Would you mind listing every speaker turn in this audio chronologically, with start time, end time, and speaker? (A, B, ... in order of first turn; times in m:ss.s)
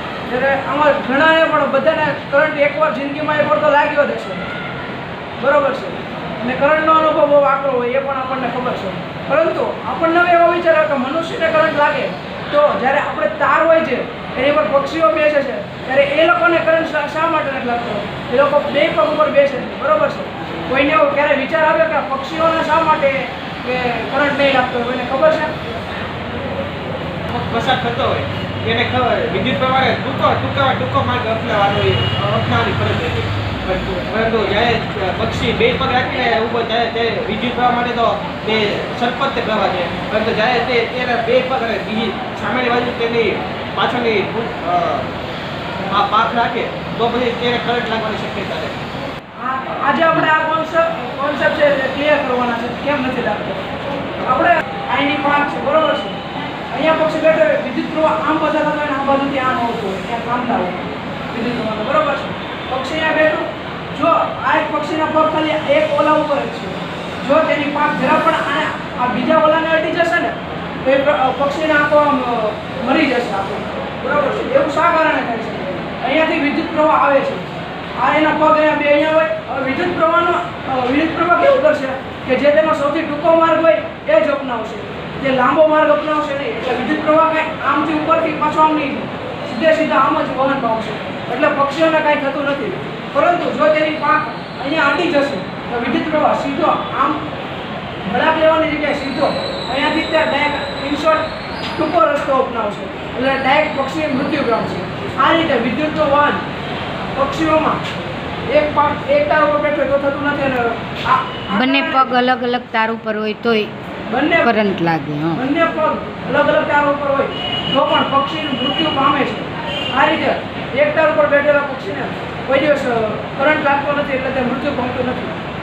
0:00.3-0:04.5 A
0:05.4-0:25.5 A
0:27.3-0:45.1 B
0:45.9-0:48.8 B
0:49.4-0:53.6 A
0:54.2-1:37.2 A
1:38.1-1:46.4 A
1:47.2-1:47.8 A
1:48.5-1:52.2 A
1:51.5-1:53.7 C
1:54.1-1:54.5 A
1:54.4-1:55.4 C
1:55.3-2:05.4 A